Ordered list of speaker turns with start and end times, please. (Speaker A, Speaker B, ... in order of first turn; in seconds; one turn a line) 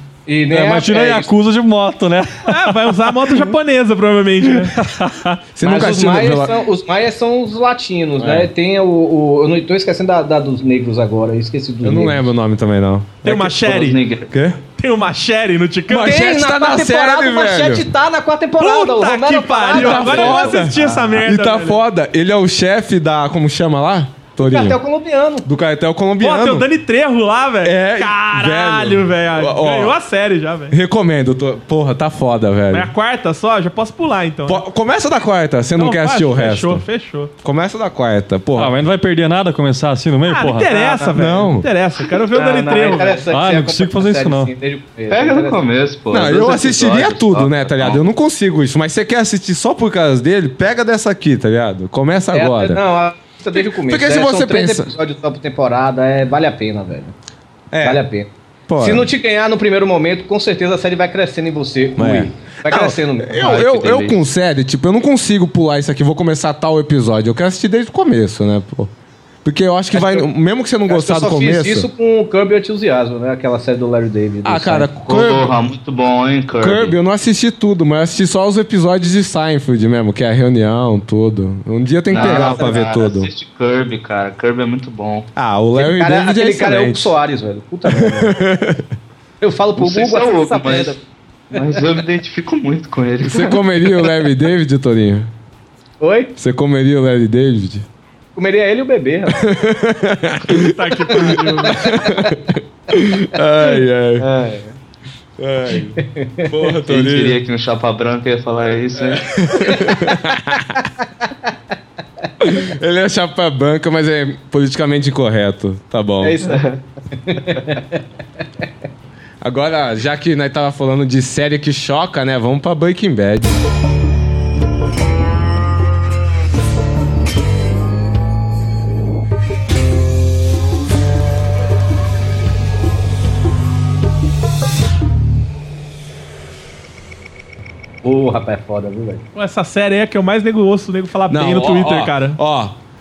Speaker A: 0.2-1.3
Speaker B: 0.5-2.8
Speaker C: 2.4-4.7
Speaker B: 4.8-5.1
Speaker D: 5.5-6.5
Speaker A: 5.6-12.3
Speaker D: 8.2-8.5
Speaker D: 11.8-13.5
Speaker C: 13.2-14.0
Speaker E: 13.4-14.3
Speaker D: 14.3-14.6
Speaker C: 14.8-16.2
Speaker D: 15.9-17.9
Speaker A: 16.0-20.7
Speaker C: 18.6-21.8
Speaker D: 19.7-24.8
Speaker E: 19.9-20.5
Speaker A: 24.4-25.5
Speaker D: 25.4-26.7
Speaker C: 26.2-30.8
Speaker D: 27.6-29.9
Speaker D: 30.7-32.9
Speaker C: 32.7-34.6
Speaker D: 34.5-36.8
Speaker C: 35.8-37.3
Speaker D: 37.4-38.7
Speaker B: 38.6-40.8
Speaker C: 40.2-43.1
Speaker D: 41.1-41.7
Speaker E: 42.1-43.3
Speaker A: 42.3-45.6
Speaker B: 43.3-44.5
Speaker E: 45.1-48.0
Speaker D: 46.1-52.8
Speaker A: 52.3-57.1
Speaker D: 53.5-54.9
Speaker D: 57.7-58.0
Speaker A: 57.8-63.6
Speaker D: 58.7-59.1
Speaker D: 62.0-68.9
Speaker E: 63.3-64.2
Speaker D: 69.4-71.9
Speaker A: 69.9-70.3
Speaker A: 70.8-74.9
Speaker D: 74.4-75.5
Speaker E: 75.1-76.9
Speaker D: 76.6-83.3
Speaker E: 82.1-85.3
Speaker A: 82.1-82.8
Speaker D: 85.3-87.1
Speaker A: 85.7-88.4
Speaker D: 87.9-88.8
Speaker A: 89.4-91.0
Speaker E: 89.8-91.0
Speaker E: 91.5-93.6
Speaker A: 91.5-91.8
Speaker D: 93.2-95.3
Speaker A: 96.0-96.3
Speaker D: 96.4-97.8
Speaker A: 98.3-99.4
Speaker D: 99.3-104.3
Speaker C: 100.6-101.9
Speaker E: 104.2-104.8
Speaker D: 105.4-107.4
Speaker A: 106.0-106.5
Speaker E: 106.8-109.4
Speaker D: 109.1-110.8
Speaker D: 112.4-116.3
Speaker A: 116.2-118.0
Speaker E: 116.4-116.8
Speaker D: 119.4-123.5
Speaker A: 138.0-139.2
Speaker C: 139.3-142.4
Speaker D: 141.3-142.8